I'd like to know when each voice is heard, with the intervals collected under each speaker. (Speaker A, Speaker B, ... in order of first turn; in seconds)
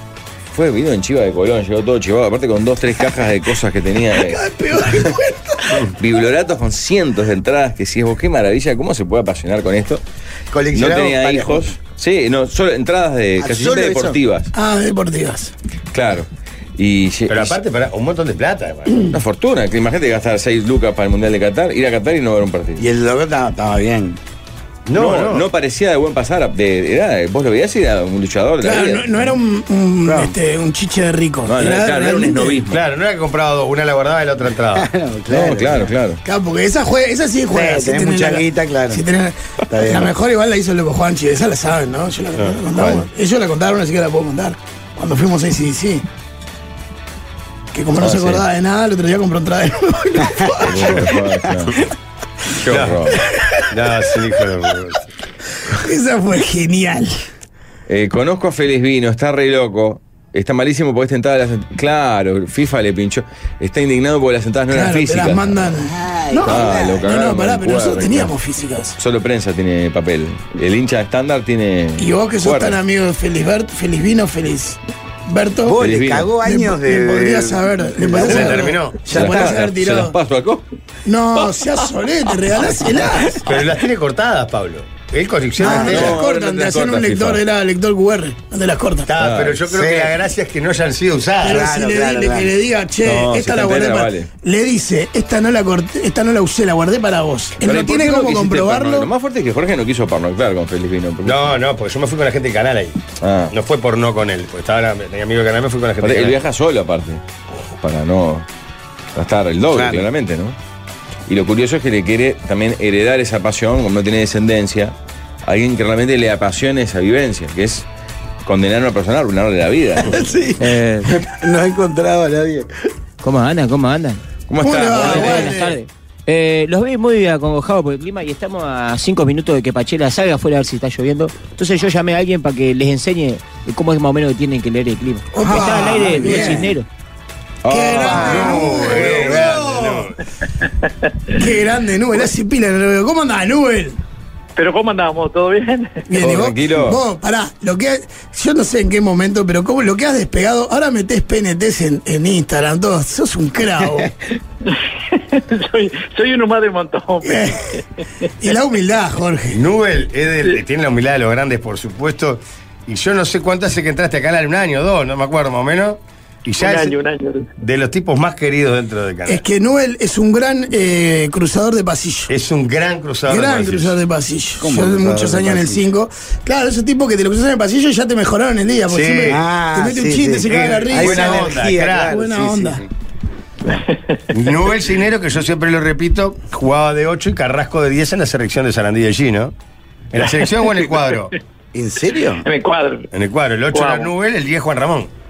Speaker A: 0.5-5.1, 5.8-10.0, 10.7-14.5, 15.9-17.6, 19.1-22.8, 24.9-29.3, 31.5-32.8, 35.3-36.2, 48.0-48.4, 50.6-51.8, 52.6-53.2, 57.9-65.7, 66.5-68.3, 69.0-72.8, 75.8-76.3, 79.1-80.6, 85.6-87.4, 89.2-89.6, 93.0-94.3, 97.6-101.5, 103.2-103.5, 106.0-107.2, 107.8-108.5, 109.1-110.5, 111.3-114.9, 115.4-117.8, 118.4-120.2, 124.5-125.6, 137.6-138.6, 146.2-147.0
Speaker B: 4.2-5.8, 14.5-15.5, 28.6-32.6, 36.2-46.0, 47.7-51.1, 53.4-53.7, 55.7-57.2, 64.7-69.0, 72.0-75.8, 76.4-80.1, 81.0-83.4, 85.6-89.1, 91.4-99.1, 124.6-125.5, 135.3-136.7, 137.7-139.9, 141.3-144.0, 146.1-154.1, 157.2-157.7, 158.4-159.6, 169.3-172.3, 173.3-182.8
Speaker C: 10.5-11.7, 13.4-14.2, 22.8-24.2, 30.1-30.3, 34.7-35.9, 37.5-39.0, 39.7-40.1, 65.8-67.1, 75.6-79.6, 85.6-86.2, 89.7-90.1, 91.4-92.5, 109.7-110.0, 120.0-122.7, 135.4-136.7, 137.9-139.7, 174.6-175.8, 179.2-182.9, 191.7-192.4
Speaker D: 17.3-19.1, 24.9-25.4, 32.7-34.9, 42.4-43.0, 52.7-53.1, 53.7-55.1, 78.2-79.0, 83.5-86.2, 89.0-91.7, 101.2-103.0, 103.5-106.4, 138.2-140.1, 159.5-167.0, 167.6-169.4, 172.3-174.0, 178.9-179.4, 180.5-182.1, 184.3-189.5, 190.1-191.3, 193.1-195.1
Speaker E: 120.6-121.1, 123.2-124.2, 125.0-136.8
Speaker F: 144.6-146.1, 154.6-157.8, 166.6-167.5, 183.9-184.2, 192.4-193.1, 193.7-194.1